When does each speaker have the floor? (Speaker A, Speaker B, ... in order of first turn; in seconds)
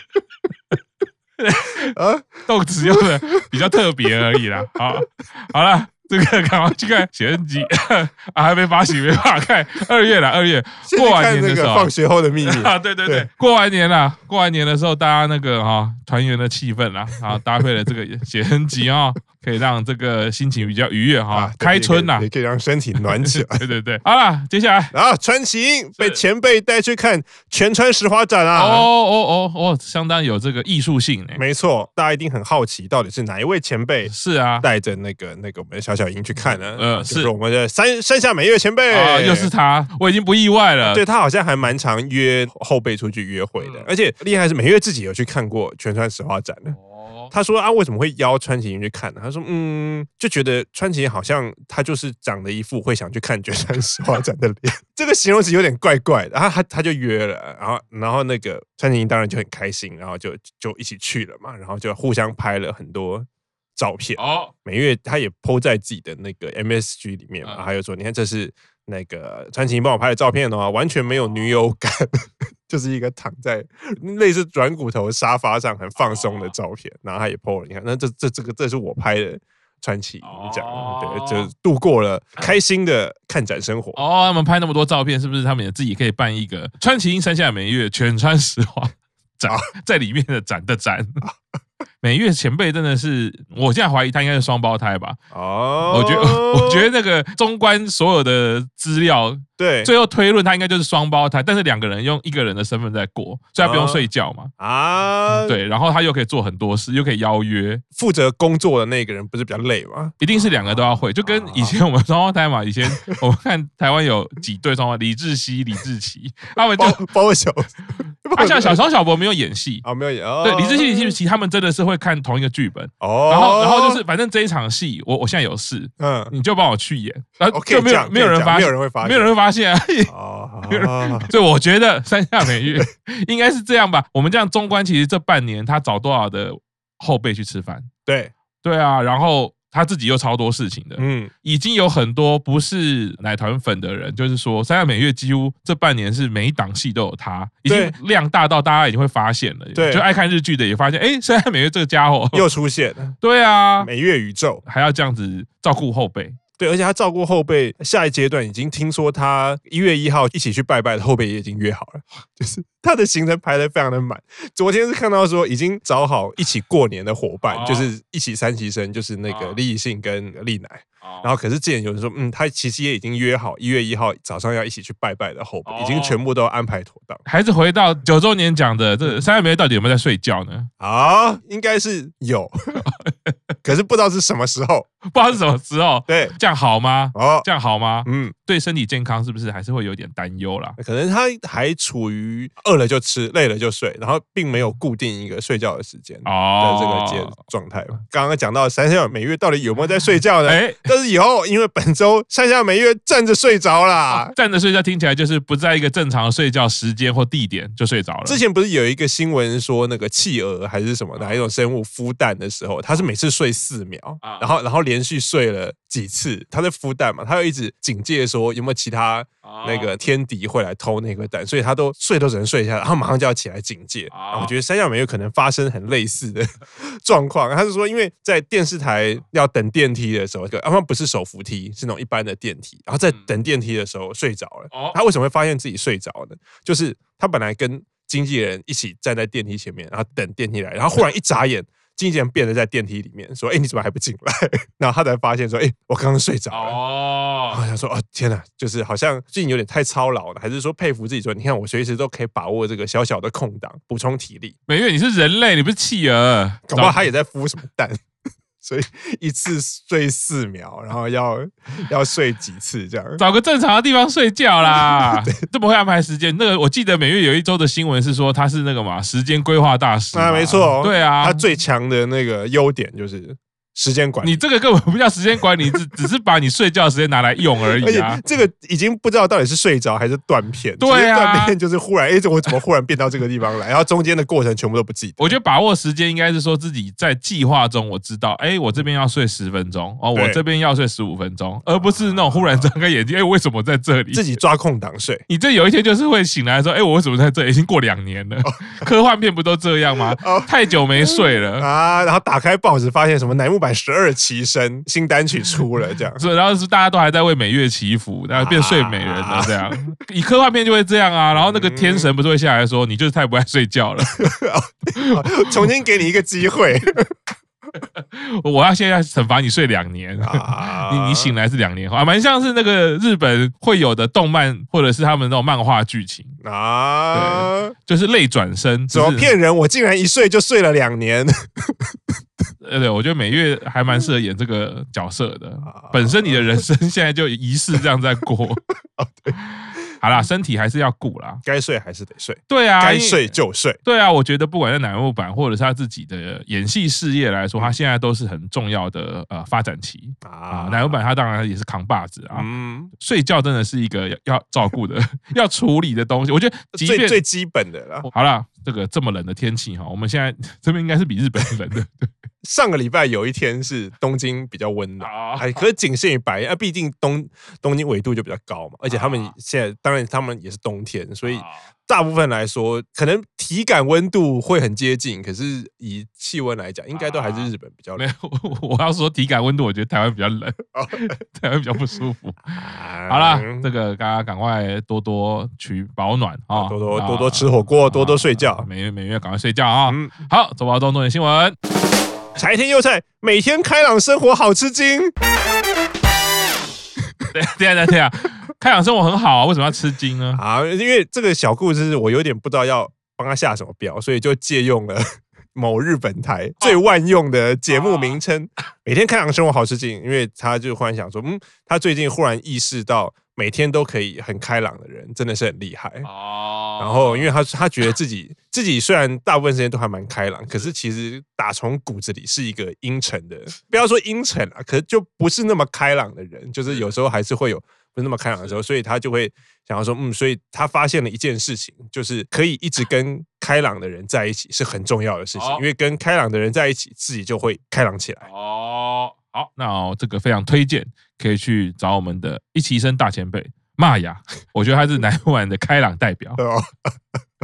Speaker A: 1.4-1.9, 2.5-22.2, 23.0-24.9, 28.5-31.4, 34.0-34.7, 36.4-37.3, 38.9-41.0, 43.6-43.9, 46.7-47.3, 64.2-64.5, 76.0-76.5, 80.2-81.5, 83.9-91.2, 92.0-95.2, 95.9-104.5, 105.4-107.8, 110.2-117.0, 118.3-119.8, 120.4-130.1, 130.7-137.9, 138.6-152.4, 153.2-153.9, 154.6-156.4, 167.5-167.9, 169.3-169.6, 171.0-171.3, 175.7-176.2, 177.2-180.7, 182.9-183.3, 185.1-190.8, 196.2-197.3, 200.4-200.8, 204.1-208.4, 214.2-214.5, 219.4-219.9, 224.1-224.5, 234.7-235.0, 246.5-247.6, 254.7-257.0, 263.2-271.4, 274.2-278.2, 280.8-281.6, 285.2-294.4, 295.3-301.7, 306.1-314.2, 314.9-315.7, 317.8-326.4, 327.1-329.3, 332.6-338.6, 339.4-341.4, 342.5-352.5, 353.0-357.2, 358.1-362.1, 365.0-365.6, 368.9-369.3, 371.2-371.6, 376.9-391.6, 397.3-400.4, 407.7-408.2, 416.0-417.3, 435.3-435.6, 438.2-446.4
Speaker B: 1.9-3.4, 10.9-13.3, 21.3-23.6, 24.9-28.9, 31.4-39.5, 40.8-46.8, 47.3-84.0, 95.3-96.9, 99.6-99.9, 103.6-104.1, 104.6-105.6, 108.0-111.8, 116.8-117.7, 118.2-118.8, 119.8-121.2, 123.0-124.0, 126.0-126.3, 127.5-129.3, 130.1-131.3, 138.1-138.3, 141.0-141.3, 147.7-147.9, 149.7-150.0, 152.3-153.2, 153.8-154.6, 156.6-177.2, 180.8-182.8, 183.6-184.9, 186.1-186.3, 187.1-187.5, 188.0-188.3, 190.8-204.3, 208.2-246.8, 247.5-254.5, 256.7-258.0, 258.6-263.2, 264.6-265.3, 270.1-274.4, 277.8-285.4, 290.1-290.4, 291.8-292.7, 294.1-295.2, 300.2-306.2, 308.3-309.6, 311.4-312.1, 314.1-317.1, 320.2-321.4, 326.4-327.7, 328.9-331.9, 335.6-336.6, 339.0-339.3, 341.4-343.8, 350.2-350.9, 352.3-352.9, 356.8-358.1, 362.4-378.1, 380.7-381.0, 382.5-383.7, 386.5-388.7, 389.9-390.1, 392.4-395.1, 400.3-416.1, 416.8-438.3, 446.4-446.7